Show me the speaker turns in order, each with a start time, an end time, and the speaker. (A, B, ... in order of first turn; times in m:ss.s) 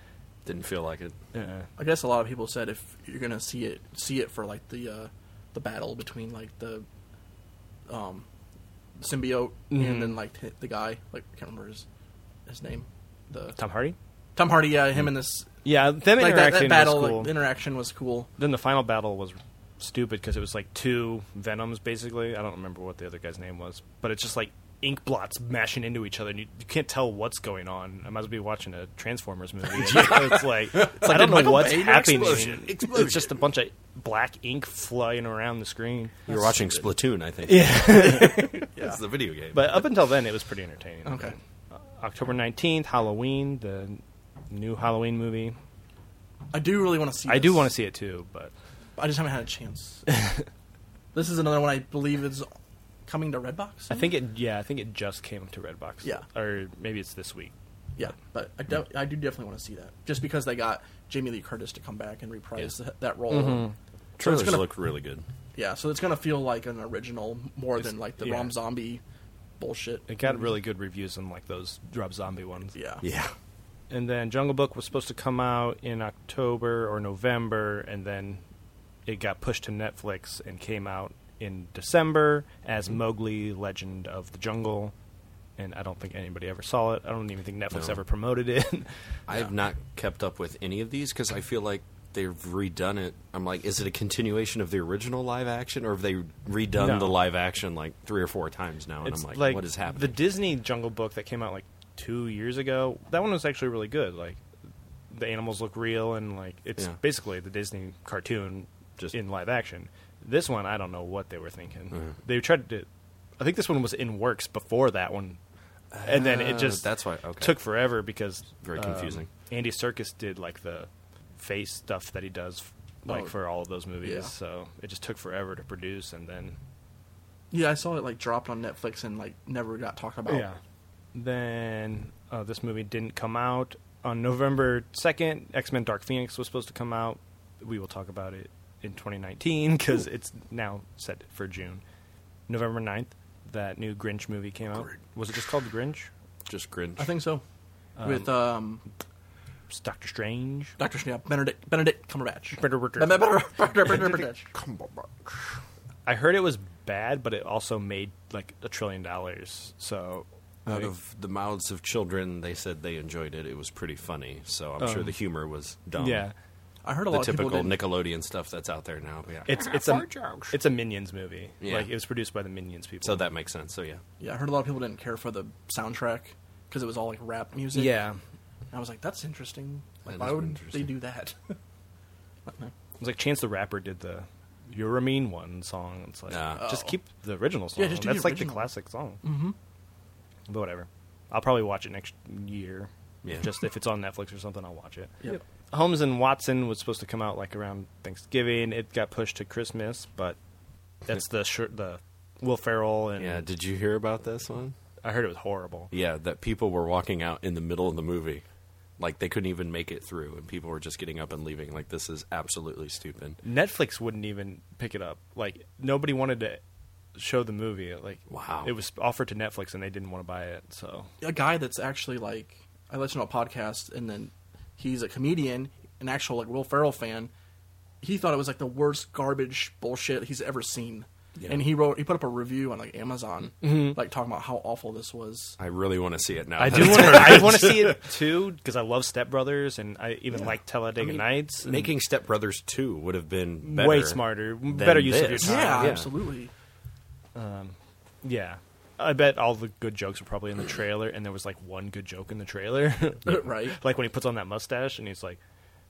0:00.4-0:01.2 A
0:01.3-0:01.7 B
0:01.8-0:06.9 C
0:07.9-0:08.2 C
0:09.0-0:11.8 C
0:09.7-0:10.2 B
0:12.5-0:13.6 C
0:13.6-0:14.0 B
0:14.4-0:15.5 C
0:15.6-0:17.4 B
0:16.2-0:18.3 C
0:18.4-0:36.2 B
0:29.7-0:33.4 A
0:30.8-0:32.5 C
0:36.3-0:36.9 C
0:36.3-0:39.9 A
0:37.5-0:38.7 B
0:38.6-0:39.0 C
0:39.5-0:45.6 B
0:41.0-0:41.4 C
0:46.5-0:47.7 C
0:47.3-0:48.5 B
0:49.0-0:50.1 C
0:51.1-0:52.5 C
0:53.1-0:54.1 C
0:53.9-0:57.5 B
0:58.0-1:04.7 C
1:03.3-1:03.8 B
1:04.2-1:05.3 A
1:05.5-1:09.0 C
1:08.2-1:08.5 B
1:09.6-1:10.5 C
1:10.1-1:12.7 B
1:12.7-1:13.0 C
1:13.0-1:13.3 A
1:13.9-1:18.4 B
1:19.1-1:24.9 B
1:25.6-1:29.0 B
1:27.7-1:28.0 A
1:29.3-1:40.2 A
1:36.8-1:37.2 B
1:39.0-1:44.4 B
1:45.1-1:52.9 B
1:53.4-1:55.4 B
1:55.9-1:57.6 A
1:56.0-1:56.9 B
1:57.4-2:06.6 B
1:58.6-1:59.3 A
2:03.1-2:03.3 C
2:04.0-2:04.3 C
2:07.5-2:10.5 C
2:10.3-2:10.6 B
2:11.1-2:21.8 B
2:22.5-2:26.1 B
2:26.5-2:27.1 A
2:27.0-2:27.4 C
2:28.0-2:28.4 B
2:28.0-2:28.8 C
2:29.7-2:30.8 B
2:30.8-2:34.5 C
2:32.6-2:33.4 B
2:33.9-2:34.2 B
2:34.5-2:35.3 A
2:36.1-2:40.9 B
2:40.7-2:46.3 A
2:44.8-2:45.2 B
2:46.0-2:46.3 B
2:46.8-2:47.8 C
2:47.1-2:50.6 A
2:49.5-2:53.2 B
2:51.6-2:51.9 A
2:53.0-2:54.0 A
2:54.2-2:58.0 C
2:57.7-2:58.2 B
2:58.7-3:01.6 C
3:00.0-3:00.9 A
3:02.5-3:02.7 C
3:03.0-3:09.2 B
3:06.3-3:06.7 A
3:06.6-3:07.0 C
3:07.8-3:08.7 C
3:09.2-3:09.6 C
3:10.5-3:20.4 B
3:13.2-3:13.5 A
3:21.0-3:23.4 B
3:23.2-3:24.8 A
3:25.0-3:25.9 B
3:25.9-3:28.4 A
3:29.0-3:33.4 A
3:33.4-3:36.6 B
3:37.2-3:41.1 B
3:38.3-3:38.7 A
3:41.2-3:47.3 C
3:48.0-3:55.6 C
3:51.4-3:51.6 A
3:53.6-3:54.0 B
3:55.6-3:58.0 A
3:56.6-4:01.9 B
4:01.0-4:06.1 A
4:03.6-4:06.0 B
4:05.4-4:06.5 C
4:07.4-4:15.4 B
4:13.3-4:13.8 C